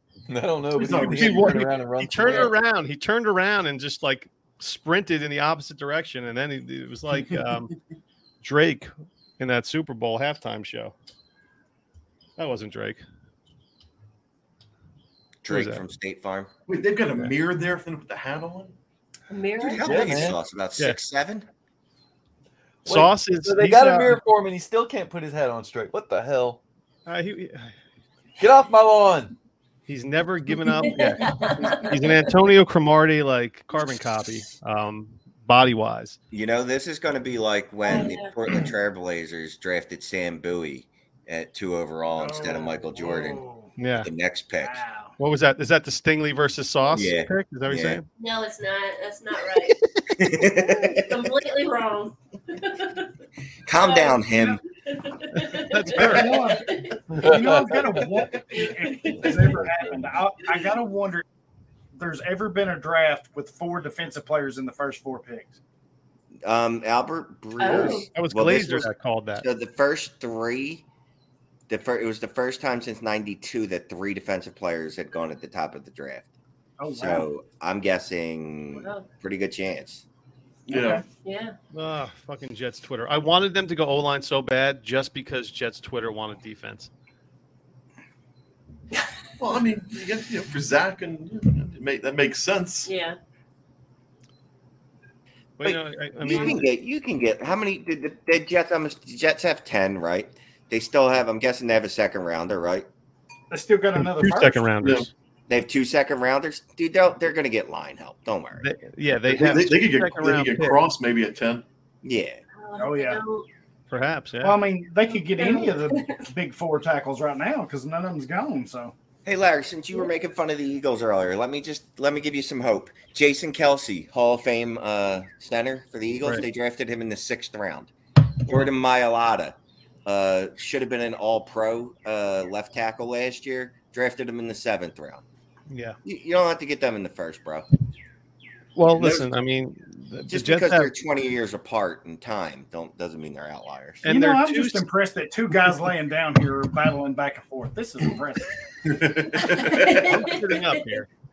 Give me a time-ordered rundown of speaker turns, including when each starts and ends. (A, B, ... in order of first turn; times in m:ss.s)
0:00.3-0:02.5 A
0:00.8-0:01.7 B
0:02.0-0:07.7 C
0:08.4-0:10.9 C
0:12.4-0:13.0 C
0:15.4-0:16.5 D
0:15.5-0:15.8 C
0:16.7-0:18.7 B
0:19.3-0:20.2 E
0:19.6-0:21.5 D
0:19.8-0:20.4 A
0:22.8-0:26.6 A
0:22.9-0:24.2 C
0:27.1-0:27.7 C
0:28.4-0:29.4 A
0:29.9-0:36.2 C
0:30.7-0:32.2 E
0:36.3-0:43.4 D
0:37.9-0:38.4 E
0:42.2-0:43.8 F
0:43.8-0:44.1 C
0:44.0-0:44.8 D
0:44.6-0:45.2 F
0:45.2-0:48.1 C
0:46.9-0:48.0 D
0:48.2-0:49.8 E
0:50.2-0:51.2 D
0:50.4-0:53.1 E
0:53.7-0:54.6 D
0:53.8-0:54.3 E
0:54.8-0:57.0 E
0:55.4-0:56.6 C
0:56.0-1:01.2 F
0:57.1-0:58.3 A
0:58.5-0:59.6 E
0:59.1-1:00.2 A
1:02.0-1:05.6 F
1:06.4-1:10.8 D
1:07.6-1:08.1 E
1:08.1-1:09.5 C
1:11.7-1:16.3 D
1:16.8-1:17.3 F
1:16.9-1:20.0 D
1:18.8-1:19.1 E
1:20.7-1:21.0 F
1:20.7-1:21.0 B
1:21.2-1:21.6 E
1:21.7-1:26.9 C
1:29.4-1:32.9 B
1:32.9-1:33.2 E
1:35.6-1:36.7 C
1:35.6-1:42.9 D
1:36.2-1:36.7 E
1:43.5-1:44.7 F
1:44.0-1:45.1 C
1:44.8-1:45.1 B
1:45.5-1:48.7 D
1:48.6-1:50.8 C
1:49.3-1:51.6 B
1:52.0-1:52.4 D
1:52.6-1:53.5 E
1:52.8-1:53.2 F
1:53.9-1:54.6 C
1:54.4-1:58.9 F
1:55.3-1:56.3 E
1:59.2-2:07.9 D
2:08.5-2:15.2 D
2:15.7-2:16.0 C
2:16.0-2:17.7 D
2:18.8-2:20.9 C
2:20.3-2:24.0 D
2:24.0-2:24.9 C
2:24.1-2:28.5 F
2:28.8-2:30.1 B
2:29.4-2:31.0 E
2:30.1-2:31.1 C